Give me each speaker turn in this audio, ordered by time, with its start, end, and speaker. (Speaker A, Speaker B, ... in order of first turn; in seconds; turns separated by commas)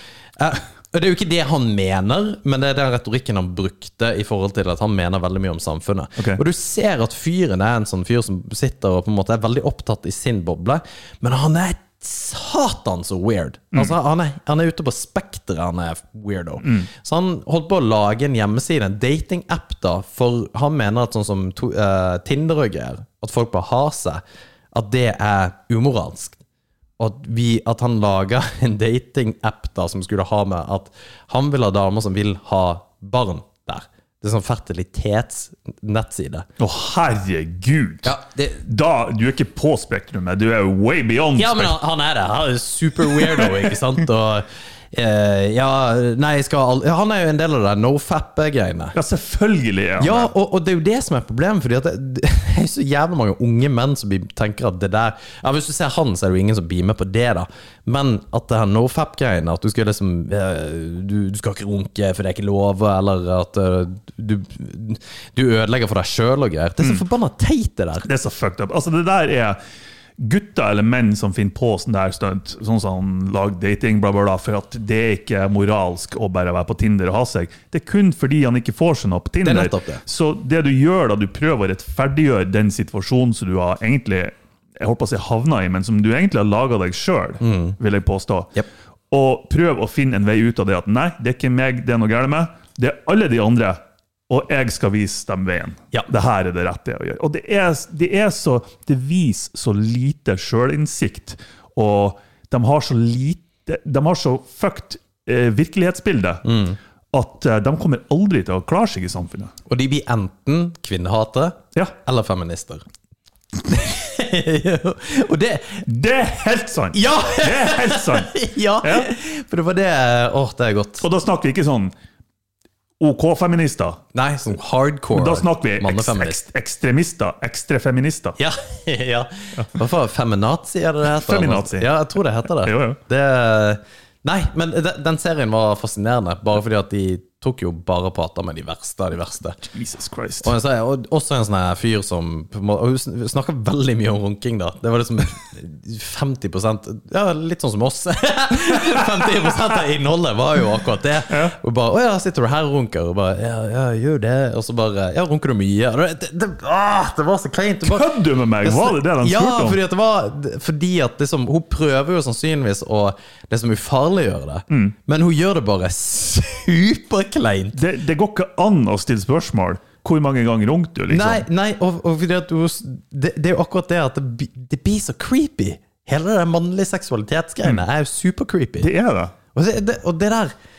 Speaker A: 0.4-26.4, Speaker B: 16.6-16.9, Speaker A: 27.0-36.5, Speaker B: 36.6-38.1, Speaker A: 38.0-38.7, Speaker B: 38.6-41.8, Speaker A: 41.4-49.0, Speaker B: 43.1-43.8, Speaker B: 49.0-50.3, Speaker A: 50.0-68.1, Speaker B: 68.0-69.6, Speaker B: 70.2-88.5, Speaker A: 79.4-80.0, Speaker A: 87.4-87.8, Speaker B: 89.1-106.5, Speaker A: 106.5-106.8, Speaker B: 107.1-109.5, Speaker A: 109.7-112.8, Speaker A: 113.6-115.9, Speaker B: 115.9-119.1, Speaker A: 116.9-121.0, Speaker B: 121.0-121.9, Speaker B: 123.0-124.0, Speaker A: 124.1-126.4, Speaker B: 125.1-128.4, Speaker A: 128.4-139.6, Speaker B: 131.0-131.9, Speaker B: 132.5-133.0, Speaker B: 139.6-140.5, Speaker A: 140.4-167.8, Speaker B: 148.9-149.5, Speaker B: 151.3-151.6, Speaker B: 157.8-159.8, Speaker B: 167.8-171.4, Speaker A: 171.1-178.9, Speaker B: 178.8-179.3, Speaker A: 179.5-180.5